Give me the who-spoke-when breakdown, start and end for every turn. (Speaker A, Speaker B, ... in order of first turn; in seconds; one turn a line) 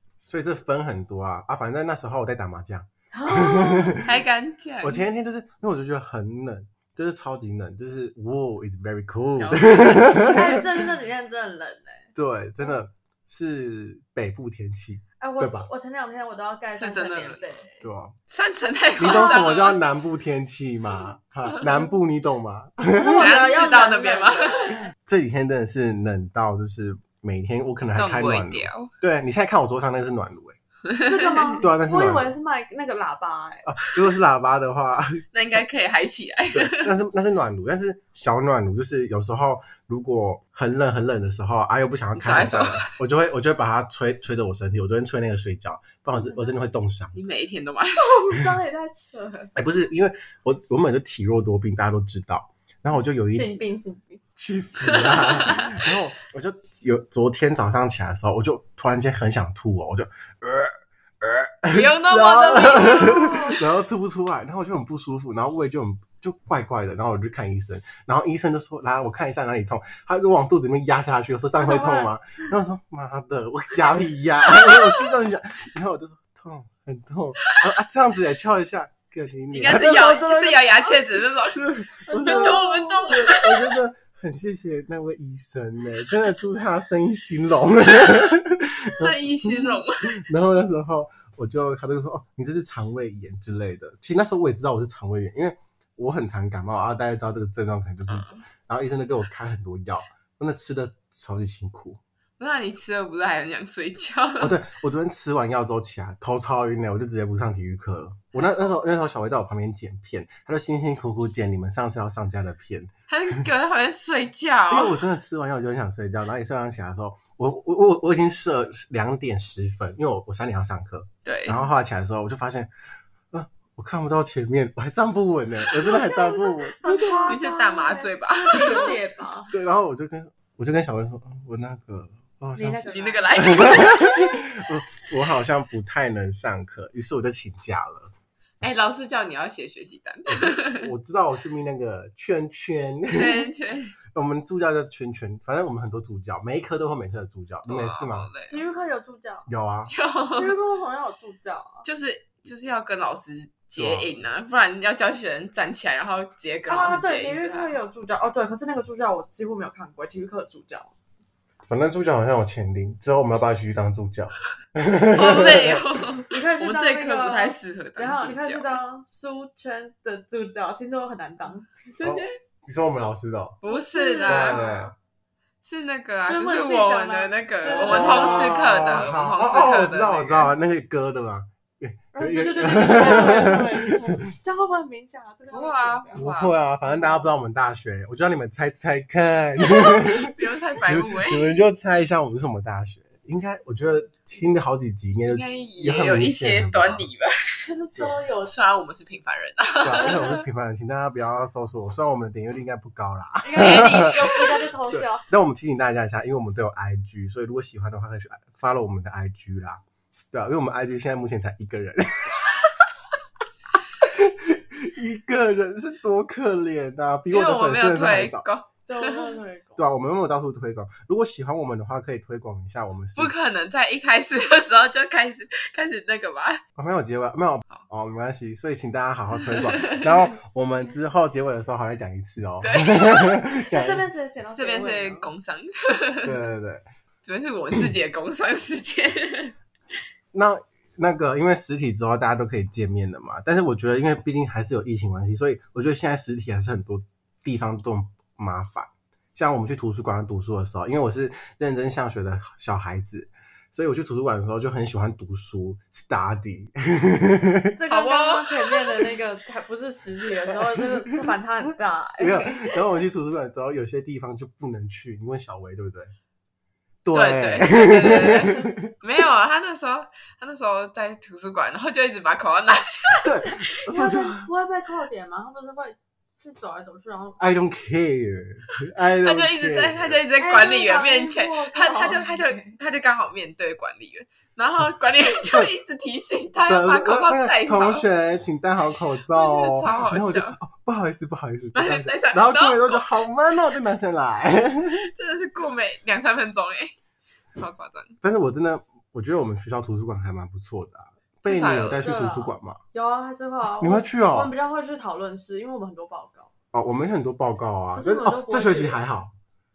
Speaker A: 0.2-4.2
Speaker B: 3.1-4.0
Speaker C: 4.0-5.0
Speaker A: 4.8-10.6
Speaker C: 9.4-10.6
Speaker B: 10.2-12.1
Speaker A: 12.1-15.7
Speaker B: 15.2-17.8
Speaker C: 16.7-17.6
Speaker A: 17.8-18.1
Speaker C: 18.3-19.8
Speaker A: 19.0-23.3
Speaker B: 19.0-19.4
Speaker B: 22.9-24.9
Speaker C: 23.2-24.8
Speaker A: 25.0-30.6
Speaker C: 27.9-28.9
Speaker C: 30.9-31.5
Speaker B: 31.0-33.7
Speaker A: 31.6-32.3
Speaker A: 33.6-35.2
Speaker C: 35.3-36.9
Speaker A: 36.5-47.1
Speaker C: 42.2-42.9
Speaker B: 46.1-46.5
Speaker C: 47.1-48.1
Speaker B: 48.0-49.5
Speaker A: 49.5-53.6
Speaker B: 53.3-54.2
Speaker A: 54.4-102.0
Speaker C: 54.8-55.8
Speaker C: 61.7-63.6
Speaker B: 62.8-63.6
Speaker B: 71.6-72.5
Speaker C: 79.5-83.8
Speaker B: 82.1-83.3
Speaker C: 88.9-90.2
Speaker C: 98.1-98.4
Speaker C: 102.4-104.6
Speaker A: 104.4-113.5
Speaker C: 113.1-115.0
Speaker A: 114.7-122.7
Speaker C: 121.2-121.6
Speaker A: 123.3-127.4
Speaker B: 125.8-129.5
Speaker C: 127.2-129.0
Speaker A: 129.5-132.8
Speaker B: 132.5-134.1
Speaker C: 132.9-134.2
Speaker A: 133.3-138.1
Speaker C: 138.6-140.9
Speaker A: 140.3-143.5
Speaker C: 143.1-143.9
Speaker A: 144.1-148.3
Speaker C: 147.7-148.6
Speaker B: 148.5-149.5
Speaker A: 149.5-149.9
Speaker C: 149.9-150.6
Speaker B: 150.3-151.9
Speaker C: 151.8-157.8
Speaker A: 153.8-154.1
Speaker B: 156.7-160.9
Speaker A: 161.6-165.9
Speaker C: 165.1-168.8
Speaker B: 166.3-171.7
Speaker C: 171.9-172.3
Speaker A: 172.0-173.6
Speaker C: 173.6-174.8
Speaker B: 173.7-174.9
Speaker A: 174.2-174.9
Speaker C: 175.6-180.5
Speaker B: 176.3-179.1
Speaker A: 177.7-184.1
Speaker B: 182.1-186.3
Speaker C: 185.5-186.6
Speaker A: 186.1-197.1
Speaker B: 186.9-187.3
Speaker C: 189.8-191.6
Speaker C: 195.2-197.6
Speaker B: 197.6-198.5
Speaker C: 198.4-200.4
Speaker A: 199.8-204.2
Speaker B: 203.4-205.2
Speaker C: 203.6-204.5
Speaker A: 204.9-209.8
Speaker A: 210.3-212.9
Speaker A: 214.0-218.4
Speaker C: 217.3-219.3
Speaker B: 218.9-219.8
Speaker A: 219.8-223.3
Speaker C: 223.2-226.6
Speaker A: 226.8-234.1
Speaker C: 229.4-230.2
Speaker C: 232.6-233.4
Speaker B: 233.7-235.3
Speaker C: 234.4-236.4
Speaker A: 236.2-236.8
Speaker C: 237.2-239.6
Speaker A: 240.3-257.8
Speaker B: 257.8-262.8
Speaker C: 257.9-259.0
Speaker A: 260.5-261.3
Speaker A: 262.2-266.1
Speaker A: 267.0-268.9
Speaker C: 267.1-273.6
Speaker A: 273.2-274.5
Speaker B: 273.9-277.4
Speaker A: 277.4-280.2
Speaker C: 279.0-288.0
Speaker B: 280.4-282.8
Speaker A: 285.4-285.7
Speaker A: 286.7-295.1
Speaker C: 289.3-290.6
Speaker C: 291.8-293.2
Speaker C: 294.9-296.9
Speaker C: 297.6-298.1
Speaker A: 298.2-302.8
Speaker C: 301.4-302.1
Speaker B: 302.0-306.5
Speaker A: 303.8-304.5
Speaker A: 306.7-309.3
Speaker B: 307.9-309.0